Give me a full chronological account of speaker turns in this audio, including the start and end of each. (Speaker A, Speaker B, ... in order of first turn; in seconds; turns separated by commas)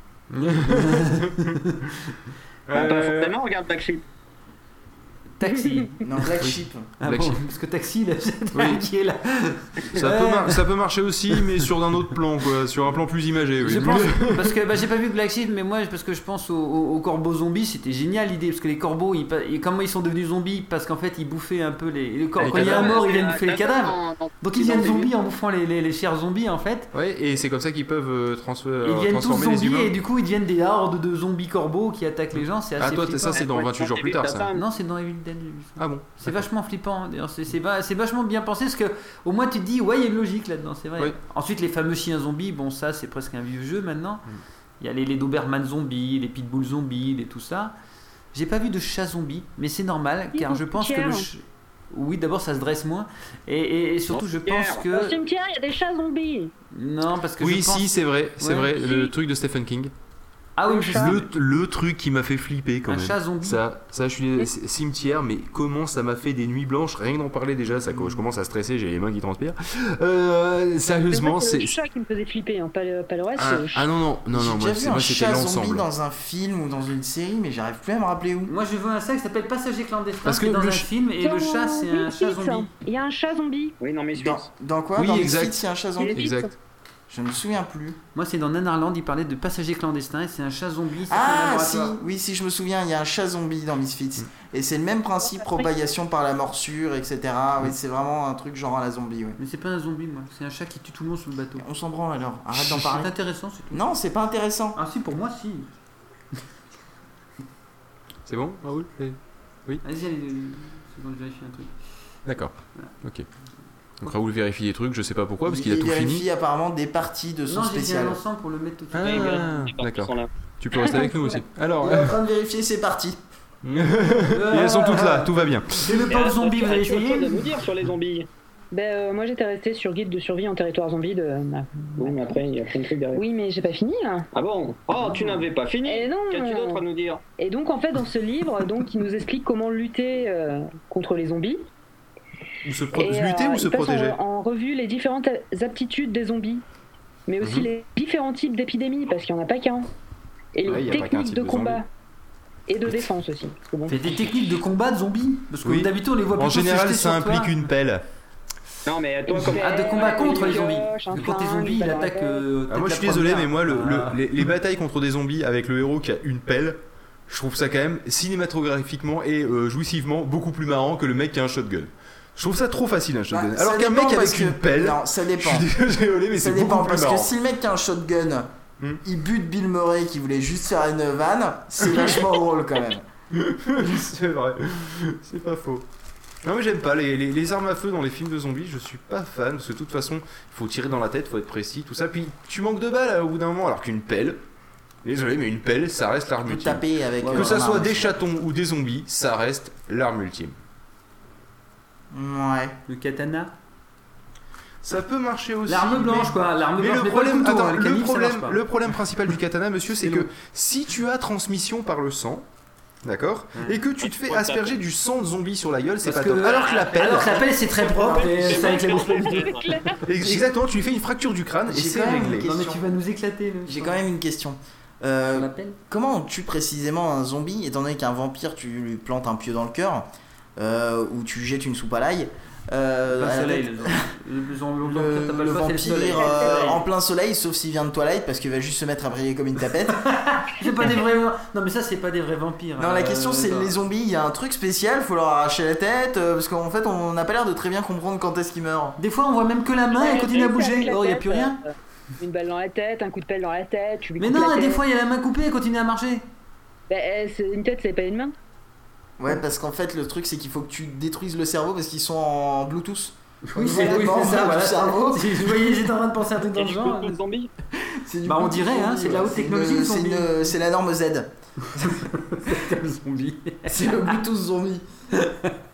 Speaker A: 0.3-1.5, Speaker B: 0.6-1.9, Speaker A: 2.7-3.3, Speaker C: 2.7-4.0, Speaker B: 5.4-6.1, Speaker D: 5.5-5.8, Speaker E: 6.0-6.9, Speaker A: 6.4-7.4, Speaker B: 7.0-10.6, Speaker A: 8.5-8.9, Speaker A: 9.9-14.5, Speaker B: 11.3-11.7, Speaker B: 13.6-26.9, Speaker A: 22.4-23.0, Speaker C: 22.5-25.1, Speaker A: 26.9-29.9, Speaker B: 28.8-33.4, Speaker A: 32.8-34.5, Speaker C: 33.3-34.6, Speaker B: 34.5-44.3, Speaker A: 35.8-36.5, Speaker B: 44.8-47.7, Speaker B: 48.3-55.2, Speaker D: 50.3-51.3, Speaker C: 54.1-54.8, Speaker D: 54.9-56.5, Speaker B: 56.7-58.9, Speaker A: 57.4-59.9, Speaker B: 60.6-61.3, Speaker D: 60.7-61.2, Speaker A: 60.9-71.8, Speaker B: 62.9-63.6, Speaker E: 67.9-68.2, Speaker D: 71.1-73.9, Speaker A: 73.4-75.8, Speaker E: 74.3-78.5, Speaker B: 78.5-82.7, Speaker A: 80.2-80.9, Speaker D: 81.2-83.8, Speaker C: 83.8-84.5, Speaker E: 84.1-86.3, Speaker A: 85.0-86.5, Speaker D: 86.0-86.5, Speaker E: 87.1-88.0, Speaker B: 88.1-92.0, Speaker E: 91.1-99.4, Speaker D: 95.3-95.7, Speaker B: 99.4-101.7, Speaker E: 101.6-103.1, Speaker B: 102.5-103.8, Speaker E: 103.7-104.8, Speaker B: 104.8-105.7, Speaker A: 108.3-109.8, Speaker B: 109.8-111.7, Speaker A: 112.2-113.3, Speaker A: 114.0-116.2, Speaker E: 115.4-118.2, Speaker B: 117.5-119.5, Speaker A: 118.9-122.2, Speaker C: 119.0-120.3, Speaker E: 121.8-123.2, Speaker A: 123.6-126.0, Speaker B: 124.1-127.5, Speaker C: 126.0-128.3, Speaker D: 128.7-132.3, Speaker C: 132.0-133.2, Speaker D: 133.1-134.3, Speaker C: 134.3-137.2, Speaker D: 135.9-136.8, Speaker D: 137.4-141.6, Speaker A: 142.6-144.2, Speaker D: 142.9-146.6, Speaker D: 147.3-149.9, Speaker A: 147.4-147.7, Speaker D: 150.5-151.9, Speaker A: 150.6-151.8, Speaker D: 152.7-154.0, Speaker B: 153.9-157.5, Speaker A: 155.6-158.0, Speaker C: 158.9-160.6, Speaker B: 159.3-164.2, Speaker D: 159.4-162.4, Speaker A: 162.7-177.3, Speaker E: 173.3-175.7, Speaker E: 176.3-178.5, Speaker E: 179.0-183.1, Speaker A: 183.3-185.8, Speaker A: 186.4-194.4, Speaker A: 195.0-200.5, Speaker E: 196.4-198.1, Speaker B: 197.3-197.6, Speaker E: 202.1-202.8, Speaker B: 202.9-203.5, Speaker A: 204.8-212.4, Speaker B: 205.7-208.6, Speaker B: 210.0-210.3, Speaker A: 213.0-217.3, Speaker C: 214.0-214.7, Speaker B: 216.0-220.4, Speaker C: 217.0-219.8, Speaker E: 217.9-218.8, Speaker D: 219.2-220.0, Speaker A: 220.0-222.5, Speaker E: 221.7-222.8, Speaker B: 221.9-224.0, Speaker E: 223.7-234.1, Speaker B: 225.3-225.8, Speaker B: 233.1-236.8, Speaker E: 234.8-240.0, Speaker D: 236.1-236.6, Speaker B: 239.9-243.8, Speaker E: 242.8-249.0, Speaker B: 249.0-251.6, Speaker D: 249.9-254.8, Speaker B: 254.2-256.2, Speaker D: 256.9-258.3, Speaker E: 259.2-265.9, Speaker B: 263.5-267.2, Speaker C: 266.5-267.5, Speaker E: 267.8-271.3, Speaker B: 268.2-270.5, Speaker B: 271.7-273.9, Speaker E: 273.6-274.8, Speaker B: 275.1-275.5